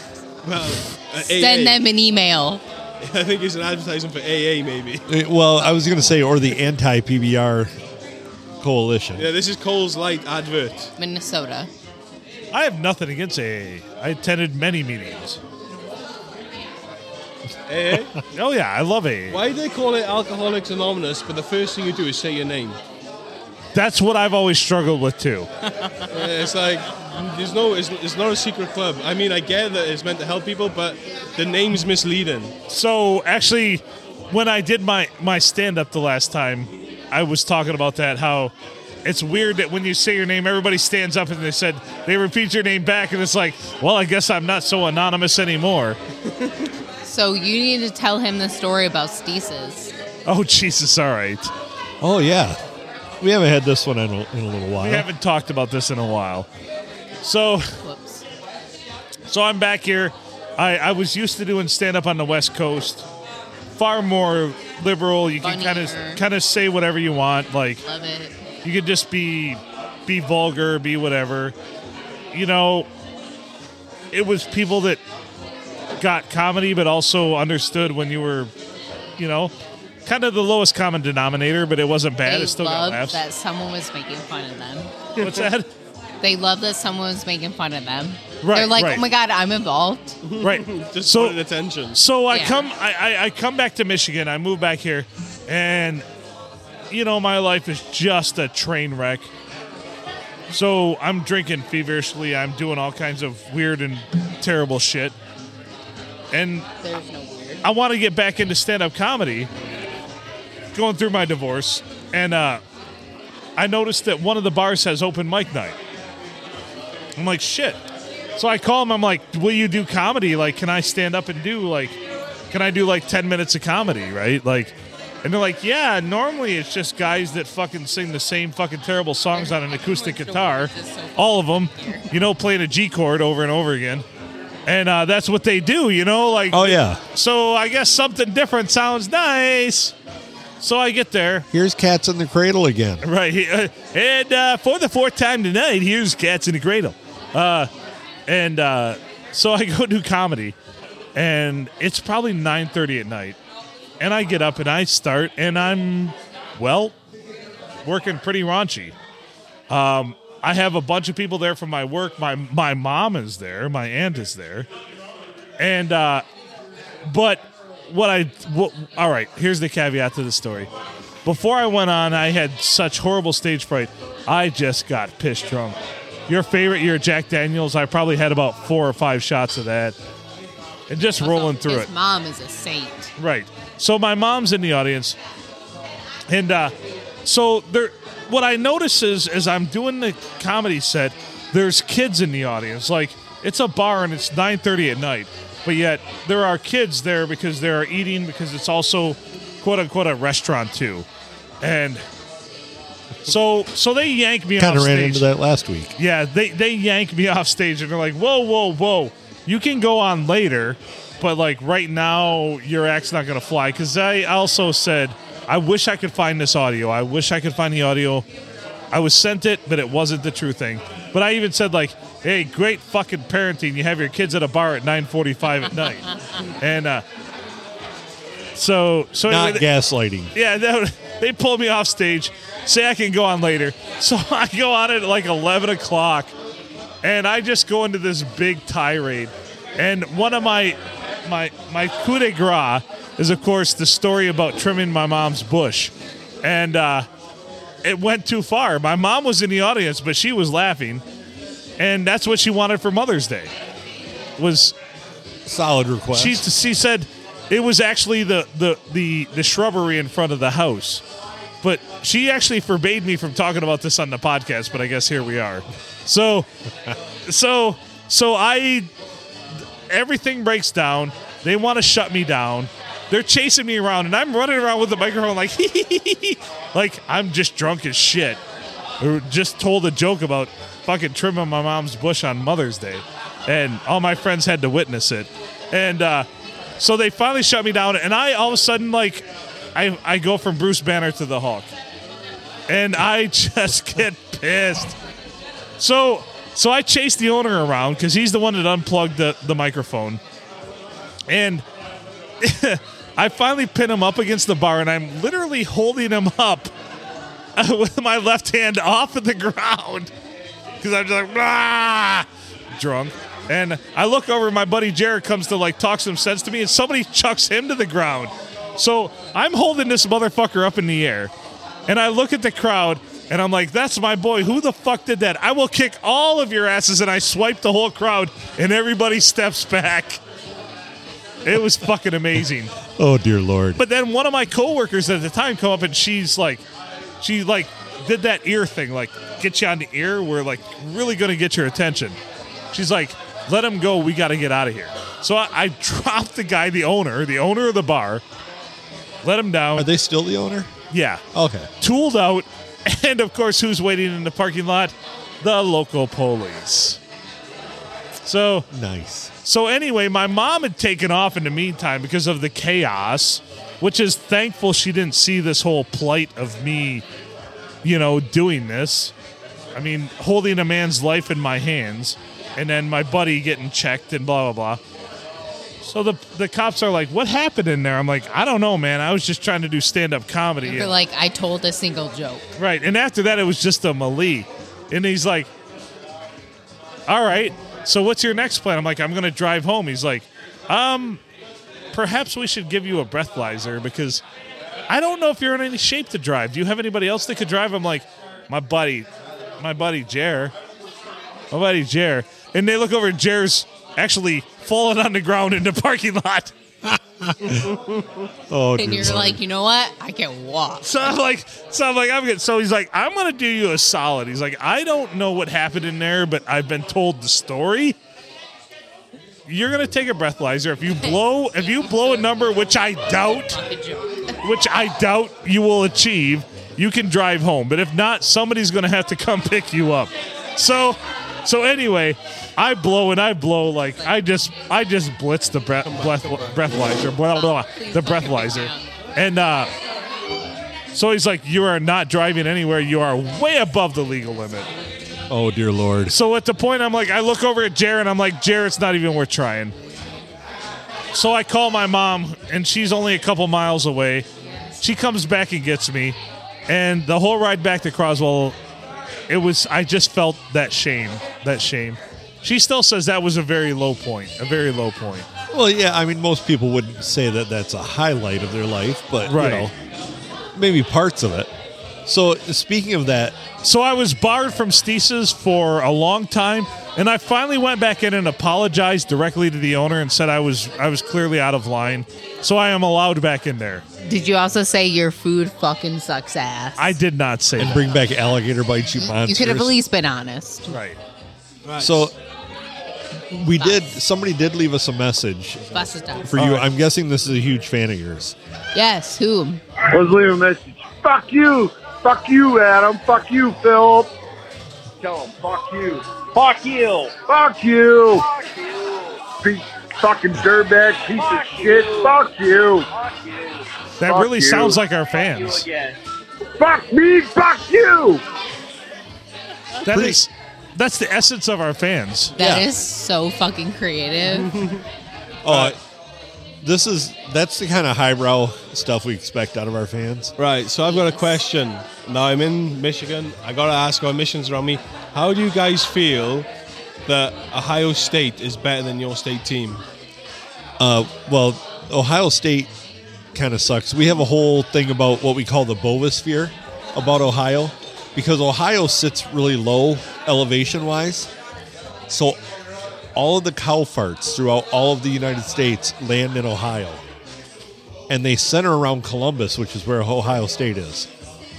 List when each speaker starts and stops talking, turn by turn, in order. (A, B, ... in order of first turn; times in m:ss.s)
0:00.4-0:01.8 A
0:01.2-0:02.6 B
0:03.0-0:05.0 A
0:05.1-0:07.7 C
0:08.6-0:09.3 C
0:09.2-0:10.9 A
0:11.0-0:11.7 B
0:12.5-0:15.4 D
0:17.7-0:18.1 A
0:18.3-0:19.4 D
0:19.3-0:22.8 A
0:23.7-0:25.5 D
0:25.8-0:26.1 B
0:26.1-0:32.5 A
0:32.7-0:38.5 D
0:39.0-0:46.0 D
0:47.0-0:49.9 B
0:50.2-0:51.5 D
0:52.0-0:52.6 C
0:53.2-0:55.1 C
0:54.8-0:56.5 D
0:57.2-0:57.7 D
0:57.8-0:58.2 B
0:59.3-1:03.0 D
1:03.8-1:07.8 D
1:05.4-1:06.2 B
1:07.8-1:08.4 B
1:08.6-1:11.5 D
1:12.3-1:12.9 D
1:14.1-1:15.0 D
1:16.0-1:18.5 D
1:19.2-1:19.5 D
1:20.0-1:23.2 D
1:22.2-1:24.9 B
1:25.2-1:25.4 A
1:25.2-1:25.7 D
1:26.2-1:30.2 B
1:28.4-1:29.0 D
1:30.2-1:32.0 A
1:30.4-1:31.4 D
1:31.9-1:36.0 D
1:32.3-1:32.7 B
1:36.9-1:39.3 D
1:40.5-1:45.1 D
1:46.3-1:46.7 D
1:46.8-1:47.6 B
1:47.6-1:49.5 D
1:50.7-1:52.6 D
1:53.6-1:55.8 D
1:57.2-1:57.8 D
1:58.4-2:02.0 D
2:02.5-2:14.0 D
2:09.3-2:12.1 B
2:14.6-2:19.9 D
2:16.5-2:17.0 C
2:20.6-2:21.5 D
2:21.5-2:23.0 C
2:23.0-2:27.7 D
2:28.3-2:30.6 D
2:31.1-2:33.4 D
2:34.0-2:36.9 D
2:37.8-2:38.9 D
2:39.7-2:44.7 D
2:45.6-2:46.2 D
2:47.0-2:50.7 D
2:51.2-3:00.0 D
3:00.9-3:01.9 D
3:01.2-3:03.1 B
3:03.2-3:05.2 D
3:06.3-3:06.7 D
3:07.2-3:21.0 D
3:21.6-3:22.0 D
3:23.2-3:25.3 D
3:24.6-3:25.9 C
3:26.0-3:38.2 D
3:38.9-3:47.0 D
3:48.5-3:49.6 D
3:49.3-3:50.3 C
3:50.3-3:56.3 D
3:57.0-4:07.1 D
4:07.8-4:11.0 D
4:11.8-4:13.5 D
4:14.4-4:14.7 D
4:15.4-4:16.4 C
4:16.1-4:21.0 D
4:21.6-4:26.5 D
4:27.3-4:28.9 D
4:29.9-4:38.4 D
4:39.0-4:46.2 D
4:46.8-4:51.7 D
4:52.7-4:55.0 D
4:55.8-5:00.2 D
5:01.3-5:01.6 D
5:02.4-5:06.7 D
5:07.6-5:10.1 D
5:10.8-5:21.3 D
5:21.9-5:30.2 D
5:31.4-5:32.8 D
5:33.0-5:33.8 C
5:33.8-5:36.6 D
5:37.2-5:42.2 D
5:42.7-5:48.2 D
5:49.2-5:49.9 D
5:49.8-5:50.7 C
5:50.9-5:51.2 D
5:51.3-5:51.7 C
5:51.8-5:57.0 D
5:58.2-5:58.6 D
5:58.7-5:59.3 C
5:59.4-6:07.0 D
6:07.8-6:09.1 D
6:09.7-6:14.8 D
6:15.8-6:20.9 D
6:20.6-6:22.5 B
6:22.6-6:25.5 D
6:27.1-6:31.2 D
6:31.9-6:34.2 D
6:34.9-6:39.1 D
6:39.6-6:40.5 D
6:41.5-6:46.5 D
6:46.8-6:47.7 C
6:47.5-6:48.0 A
6:48.5-6:49.4 C
6:48.7-6:51.1 B
6:50.8-6:58.0 D
6:59.5-7:03.6 D
7:01.0-7:04.4 B
7:04.4-7:19.7 D
7:15.8-7:16.9 A
7:17.3-7:18.8 B
7:20.9-7:24.7 D
7:25.3-7:26.2 C
7:26.1-7:29.7 D
7:31.1-7:34.2 D
7:34.8-7:36.2 D
7:36.7-7:38.6 D
7:39.3-7:45.3 D
7:45.5-7:49.7 C
7:49.2-7:49.7 D
7:50.5-7:51.5 C
7:52.0-7:53.4 C
7:53.6-8:03.8 D
8:04.0-8:07.0 B
8:06.8-8:08.0 D
8:07.6-8:09.7 C
8:09.0-8:10.8 B
8:10.7-8:11.0 D
8:11.6-8:12.1 A
8:11.8-8:12.1 C
8:13.3-8:18.4 C
8:13.6-8:13.9 B
8:15.7-8:16.3 B
8:16.4-8:16.7 D
8:18.7-8:19.6 B
8:19.9-8:24.1 E
8:25.0-8:35.9 E
8:34.0-8:35.7 D
8:36.6-8:38.2 E
8:39.8-8:42.3 D
8:39.9-8:40.2 C
8:42.3-8:44.5 B
8:42.4-8:42.7 C
8:44.2-8:44.8 A
8:45.4-8:45.8 C
8:45.5-8:45.8 A
8:46.6-8:50.3 C
8:50.4-8:56.5 A
8:50.9-8:51.4 B
8:57.0-8:59.8 A
9:00.8-9:02.7 C
9:03.3-9:11.3 C
9:12.1-9:12.4 C
9:13.1-9:17.0 C
9:18.1-9:21.1 C